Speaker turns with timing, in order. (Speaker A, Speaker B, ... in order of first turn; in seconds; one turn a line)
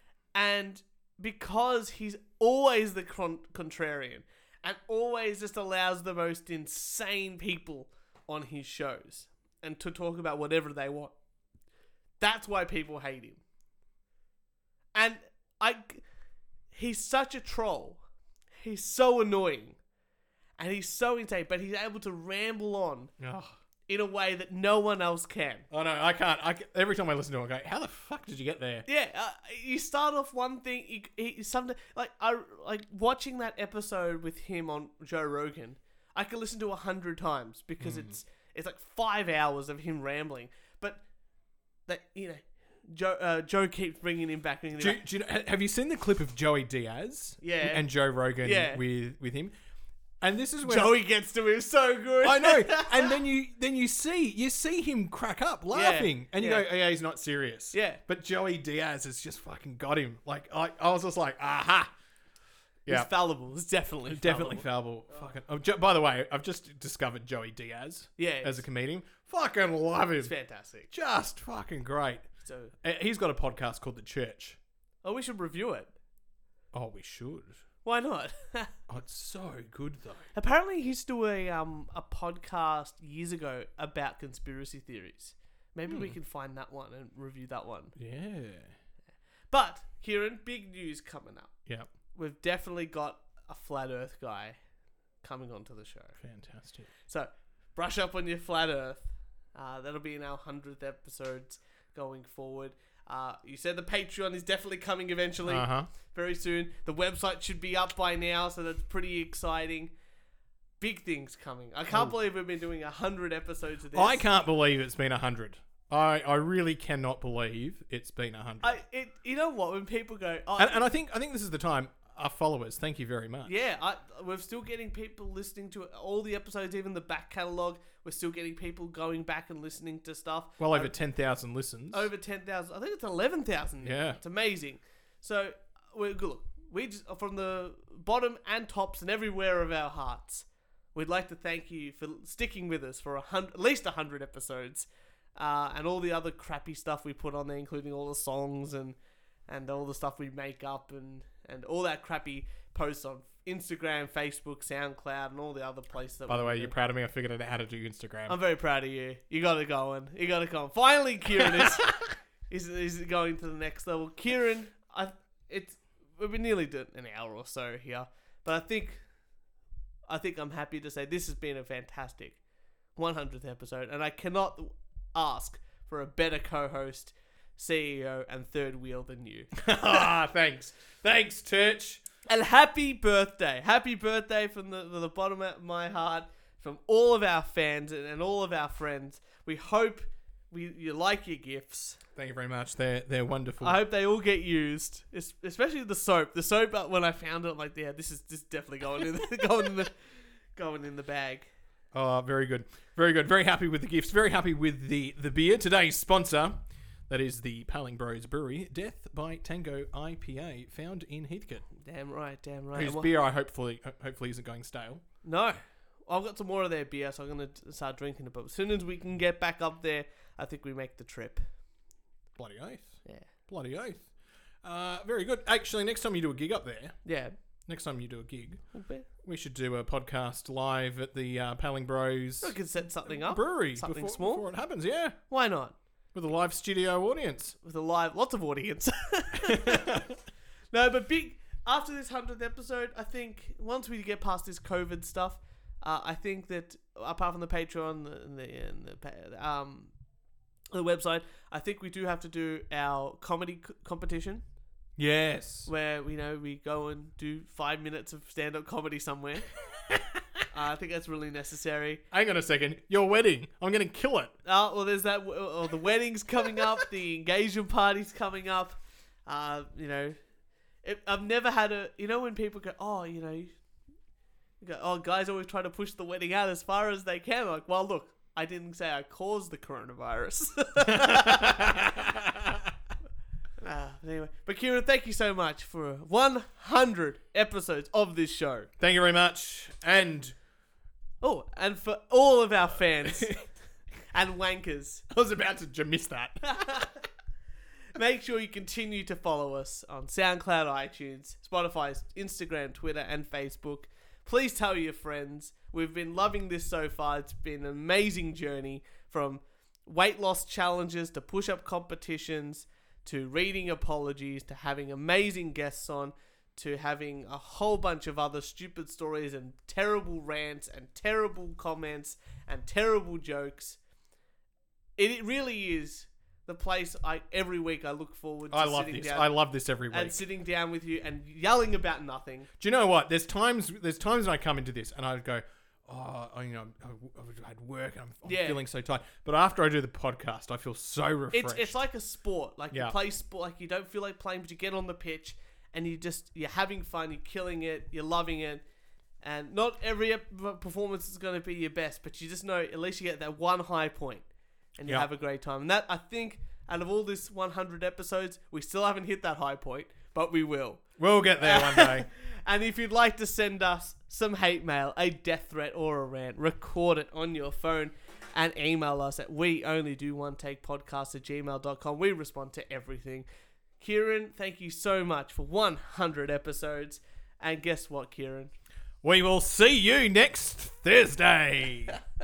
Speaker A: 0.3-11.1
Speaker A: 12.2-13.4
Speaker A: 14.9-16.0
Speaker A: 16.7-18.0
Speaker A: 18.6-19.8
Speaker A: 20.6-23.1
Speaker B: 23.2-23.6
Speaker A: 23.9-25.7
Speaker B: 25.7-28.9
Speaker A: 28.9-41.0
Speaker B: 37.8-38.2
Speaker A: 41.9-45.0
Speaker B: 44.8-49.5
Speaker A: 47.4-48.8
Speaker B: 50.2-51.0
Speaker A: 50.6-53.2
Speaker B: 52.2-61.9
Speaker A: 55.7-56.7
Speaker A: 57.7-58.0
Speaker A: 62.9-65.3
Speaker B: 64.1-70.3
Speaker A: 68.2-68.7
Speaker A: 70.2-70.9
Speaker B: 70.9-72.3
Speaker A: 72.4-72.7
Speaker B: 72.8-74.6
Speaker A: 75.0-75.9
Speaker B: 76.7-77.6
Speaker A: 77.8-78.7
Speaker B: 78.9-80.3
Speaker A: 80.3-88.0
Speaker B: 85.9-86.2
Speaker B: 88.0-88.8
Speaker A: 89.5-91.6
Speaker A: 92.1-94.6
Speaker A: 95.2-96.2
Speaker B: 96.2-96.9
Speaker A: 97.1-109.9
Speaker B: 105.5-105.9
Speaker A: 110.8-114.2
Speaker B: 113.9-118.8
Speaker A: 118.6-120.9
Speaker B: 120.6-123.5
Speaker A: 123.5-130.9
Speaker B: 130.6-132.1
Speaker A: 131.9-149.0
Speaker B: 133.8-134.2
Speaker A: 149.5-156.7
Speaker B: 156.3-158.4
Speaker A: 158.3-169.0
Speaker A: 170.1-172.4
Speaker A: 173.0-179.7
Speaker B: 179.6-182.0
Speaker A: 182.3-192.0
Speaker B: 192.2-193.8
Speaker A: 193.6-199.9
Speaker A: 200.6-201.5
Speaker B: 201.9-211.7
Speaker A: 211.8-213.1
Speaker B: 212.8-215.0
Speaker A: 215.2-221.5
Speaker B: 222.4-224.1
Speaker B: 224.6-227.0
Speaker A: 227.1-227.3
Speaker B: 227.7-235.2
Speaker A: 228.7-229.1
Speaker A: 232.4-234.5
Speaker A: 235.3-235.8
Speaker B: 236.1-237.6
Speaker A: 237.6-240.0
Speaker B: 239.4-240.2
Speaker A: 240.7-249.9
Speaker A: 250.7-254.4
Speaker B: 255.0-255.7
Speaker A: 255.7-259.5
Speaker A: 260.5-262.0
Speaker B: 262.1-264.4
Speaker A: 264.4-270.2
Speaker A: 270.8-273.5
Speaker A: 274.6-281.6
Speaker B: 280.9-282.7
Speaker A: 283.6-288.7
Speaker B: 288.8-290.4
Speaker A: 291.2-293.4
Speaker B: 293.1-293.4
Speaker A: 294.1-295.0
Speaker B: 295.1-296.9
Speaker A: 296.5-296.9
Speaker A: 297.9-323.8
Speaker A: 325.0-329.4
Speaker B: 328.5-330.2
Speaker A: 329.9-332.5
Speaker B: 332.6-341.8
Speaker A: 338.2-338.6
Speaker A: 341.3-348.6
Speaker B: 342.7-343.0
Speaker A: 349.2-360.8
Speaker B: 361.0-362.1
Speaker A: 361.4-373.3
Speaker A: 373.8-378.5
Speaker B: 379.0-382.0